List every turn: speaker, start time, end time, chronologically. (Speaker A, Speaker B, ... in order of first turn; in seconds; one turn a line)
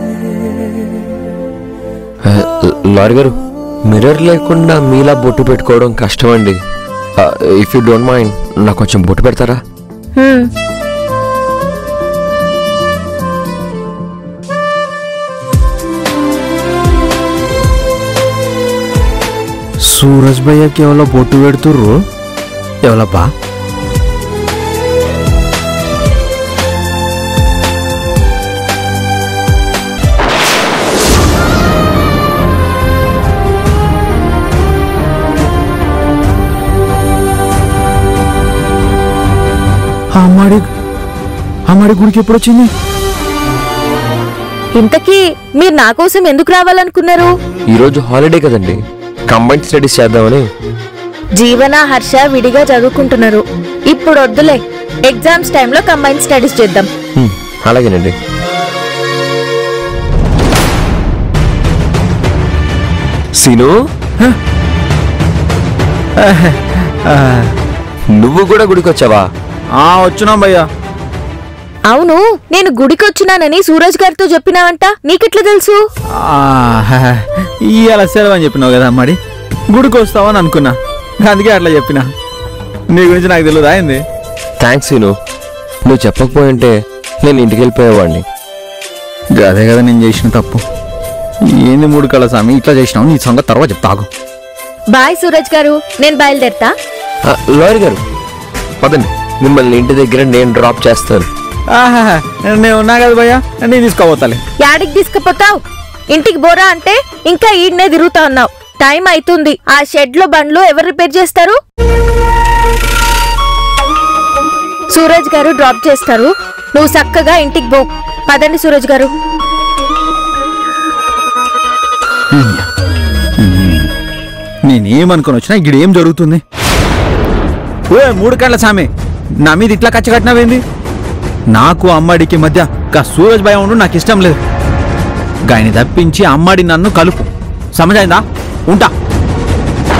Speaker A: 2.2-6.6
Speaker A: 7.2-9.6
Speaker B: 10.2-10.5
Speaker C: 19.9-22.0
Speaker C: 22.8-23.3
Speaker C: 40.2-40.7
Speaker C: 41.7-42.7
Speaker B: 44.8-47.3
Speaker A: 47.7-48.8
Speaker A: 49.3-50.5
Speaker B: 51.4-56.9
Speaker A: 57.2-58.1
Speaker A: 63.4-63.8
Speaker C: 66.2-67.5
Speaker A: 68.1-69.3
Speaker C: 69.8-70.7
Speaker B: 71.9-75.8
Speaker C: 76.1-79.2
Speaker C: 79.7-82.0
Speaker C: 82.9-84.0
Speaker A: 84.6-85.2
Speaker A: 85.8-88.2
Speaker C: 89.4-90.6
Speaker C: 91.5-94.1
Speaker B: 94.9-96.7
Speaker A: 97.2-98.0
Speaker A: 98.8-101.3
Speaker C: 101.7-104.4
Speaker B: 104.6-105.6
Speaker B: 106.1-111.6
Speaker B: 114.9-119.1
Speaker C: 122.3-122.7
Speaker C: 123.4-123.9
Speaker C: 124.7-126.4
Speaker C: 127.9-128.9
Speaker C: 129.4-130.6
Speaker C: 131.5-134.4
Speaker C: 135.5-138.9